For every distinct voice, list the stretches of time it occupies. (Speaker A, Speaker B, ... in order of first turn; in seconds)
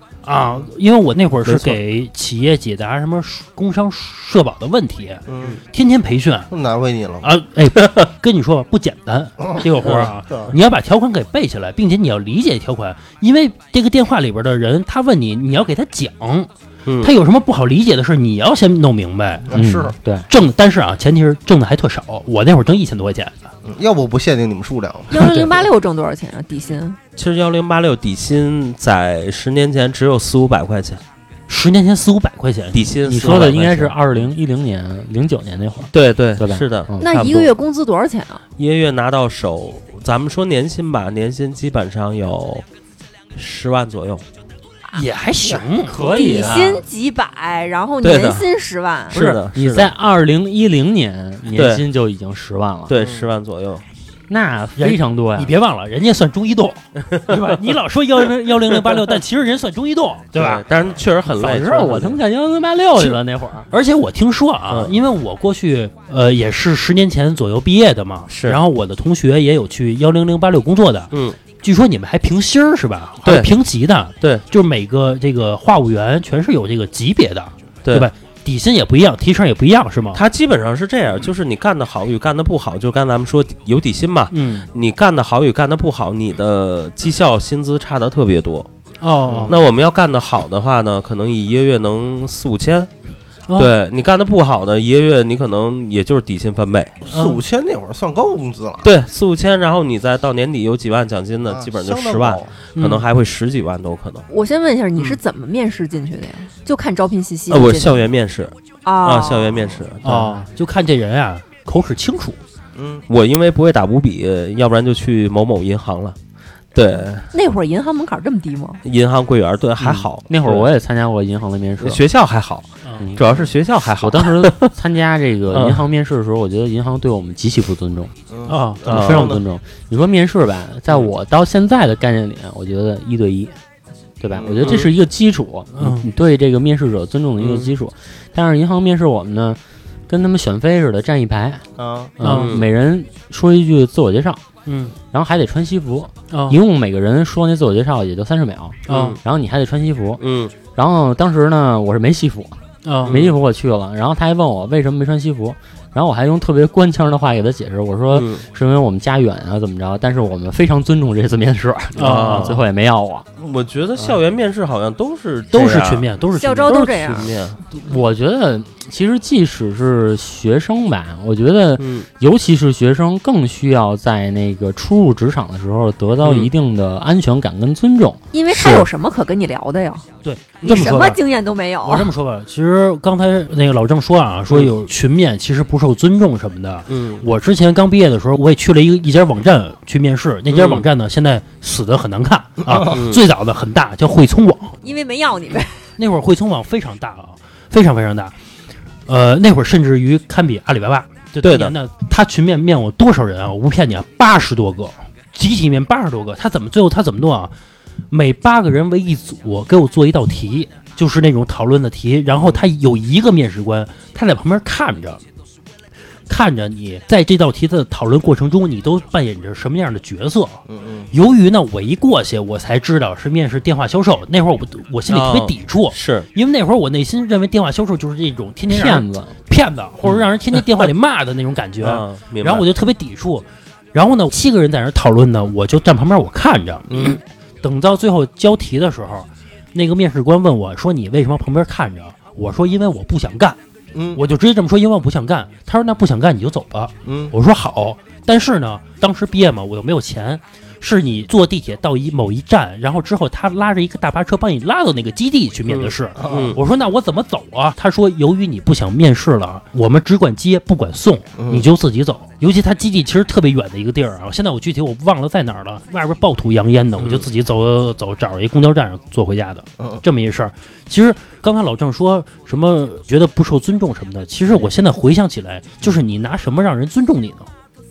Speaker A: 0.2-6.5, 7.2-16.5, 17.0-23.5, 31.5-33.5, 44.9-46.0, 54.8-60.6, 63.7-80.2, 84.3-84.7, 89.0-89.6, 97.1-97.4, 102.8-103.0, 110.0-112.4, 128.5-129.4, 135.8-136.1, 142.2-142.6, 144.7-144.9, 146.3-146.6, 148.9-149.2, 152.8-153.2, 162.0-162.6, 165.5-167.1, 180.2-181.2, 181.8-194.8, 196.0-198.3, 199.1-207.5, 208.1-215.2, 216.3-237.0, 237.6-243.6, 244.1-277.5
Speaker B: 1.4-1.8, 7.8-8.1, 16.9-17.1, 27.2-31.0, 32.7-34.0, 35.9-37.5, 38.6-42.6, 43.4-44.2, 48.0-48.5, 49.1-49.9, 51.5-51.9, 52.9-53.9, 60.4-62.2, 64.7-65.0, 68.3-68.6, 71.1-71.4, 73.2-73.5, 74.2-74.5, 77.8-78.1, 80.1-88.7, 89.5-92.9, 93.6-97.0, 98.8-104.3, 107.5-110.4, 113.1-116.2, 116.7-117.3, 118.8-120.7, 121.8-124.7, 125.5-125.8, 128.9-129.3, 134.6-134.9, 137.4-137.7, 142.2-142.7, 148.9-149.2, 150.2-150.6, 153.1-153.3, 158.1-158.4, 162.0-162.6, 163.4-166.1, 166.7-167.6, 171.8-172.1, 176.2-176.5, 178.5-178.9, 186.9-187.2, 190.5-190.9, 192.8-193.2, 201.4-201.7, 225.1-226.3, 231.8-232.7, 255.7-256.6, 267.0-267.2
Speaker C: 5.3-5.6, 6.5-7.3, 9.9-10.5, 19.5-19.9, 23.6-25.5, 52.9-53.3, 89.3-89.6, 97.0-98.9, 101.5-102.5, 112.8-113.0, 128.3-129.4, 134.3-134.8, 141.8-142.2, 220.7-221.1, 236.9-237.2, 243.9-244.2, 247.1-247.3, 256.2-256.6, 261.4-261.7
Speaker D: 19.5-20.3, 33.0-37.0, 45.9-46.9, 49.5-53.0, 54.3-55.5, 61.4-63.7, 119.8-122.0, 123.0-123.3, 124.0-128.1, 128.9-133.5, 134.2-141.7, 142.2-144.4, 145.1-150.2, 150.8-163.3, 167.7-178.2, 228.7-229.4
Speaker E: 25.1-27.0, 37.0-38.4, 45.9-49.2, 104.3-108.0, 108.8-109.7, 117.3-118.8, 166.3-167.3, 178.3-180.1, 180.6-182.1, 194.8-195.8